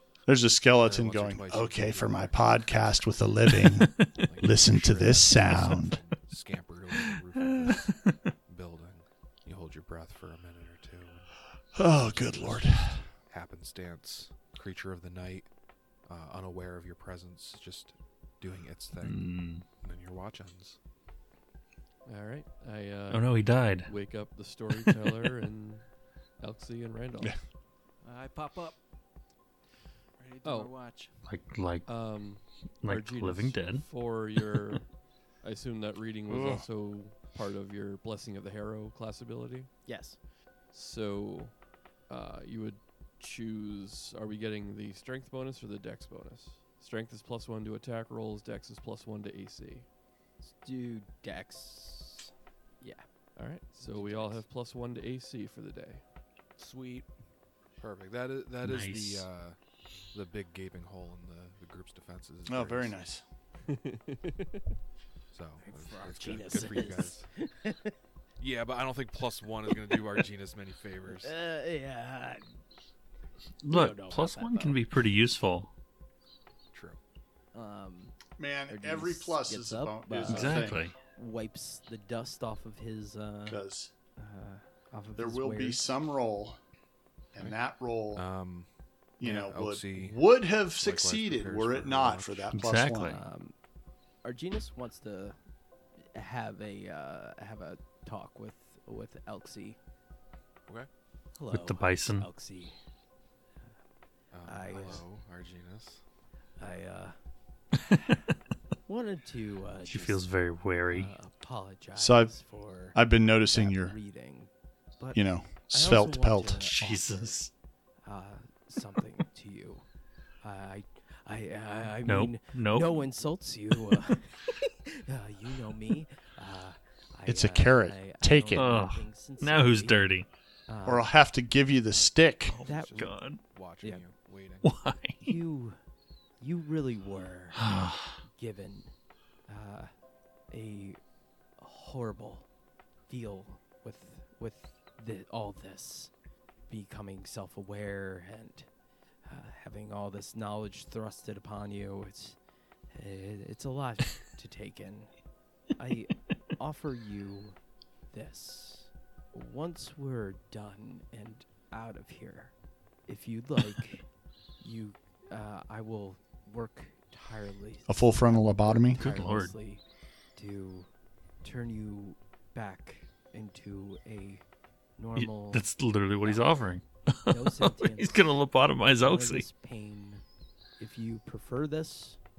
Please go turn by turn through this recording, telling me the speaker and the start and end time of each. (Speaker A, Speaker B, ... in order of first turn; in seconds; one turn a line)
Speaker A: 0.3-6.0
Speaker B: 0.8-2.9
Speaker C: 3.6-4.2
Speaker B: 4.2-15.5
Speaker C: 5.5-5.7
Speaker C: 7.1-8.3
Speaker A: 11.7-13.1
Speaker B: 16.0-20.8
Speaker C: 19.0-19.6
Speaker D: 22.0-27.4
Speaker C: 23.1-23.9
Speaker E: 28.0-28.8
Speaker E: 30.2-31.1
Speaker D: 30.4-30.7
Speaker C: 31.2-33.8
Speaker D: 31.9-39.9
Speaker A: 36.3-36.6
Speaker F: 39.8-40.2
Speaker D: 40.7-49.9
Speaker F: 50.5-53.1
Speaker D: 53.3-56.0
Speaker B: 53.9-54.4
Speaker E: 56.6-57.1
Speaker B: 57.8-59.6
Speaker C: 58.6-59.3
Speaker B: 60.1-63.0
Speaker A: 62.5-63.2
Speaker D: 63.7-64.6
Speaker B: 65.3-67.2
Speaker F: 65.6-67.9
Speaker B: 68.4-71.3
Speaker F: 71.1-72.5
Speaker C: 73.6-75.7
Speaker F: 73.7-74.8
Speaker B: 76.7-77.0
Speaker F: 77.5-83.6
Speaker A: 78.4-80.8
Speaker C: 80.2-81.0
Speaker A: 83.5-83.9
Speaker F: 84.2-85.8
Speaker A: 85.1-86.6
Speaker A: 87.3-88.2
Speaker B: 88.1-88.7
Speaker B: 89.2-90.2
Speaker A: 89.2-93.2
Speaker B: 90.7-92.5
Speaker C: 92.5-93.2
Speaker F: 93.0-93.5
Speaker F: 94.2-95.4
Speaker F: 96.1-99.8
Speaker F: 101.3-102.8
Speaker C: 101.5-102.3
Speaker B: 104.3-106.0
Speaker F: 104.4-105.0
Speaker F: 106.6-107.2
Speaker F: 108.8-110.3
Speaker C: 109.8-111.1
Speaker F: 110.9-117.4
Speaker A: 111.9-112.3
Speaker A: 112.9-114.0
Speaker A: 115.1-116.7
Speaker C: 116.7-117.5
Speaker F: 118.0-119.8
Speaker F: 120.4-130.1
Speaker C: 122.0-123.0
Speaker A: 127.2-128.7
Speaker C: 128.5-130.3
Speaker F: 130.7-131.1
Speaker A: 130.8-132.5
Speaker B: 132.5-134.7
Speaker F: 132.6-133.2
Speaker C: 132.9-133.4
Speaker C: 134.6-135.4
Speaker F: 135.2-135.8
Speaker F: 136.4-137.6
Speaker C: 137.6-138.2
Speaker F: 138.2-138.9
Speaker F: 139.5-139.9
Speaker F: 140.5-141.0
Speaker F: 141.6-142.5
Speaker F: 143.1-146.1
Speaker F: 146.7-148.7
Speaker F: 149.2-152.4
Speaker F: 152.9-155.1
Speaker F: 155.8-157.6
Speaker F: 158.1-162.5
Speaker F: 163.1-164.1
Speaker F: 164.6-169.8
Speaker A: 167.9-169.1
Speaker C: 168.9-169.6
Speaker F: 170.3-170.9
Speaker F: 171.4-174.4
Speaker F: 175.0-175.7
Speaker C: 175.1-179.4
Speaker F: 176.2-176.7
Speaker F: 177.3-178.3
Speaker F: 179.0-180.2
Speaker F: 180.8-182.2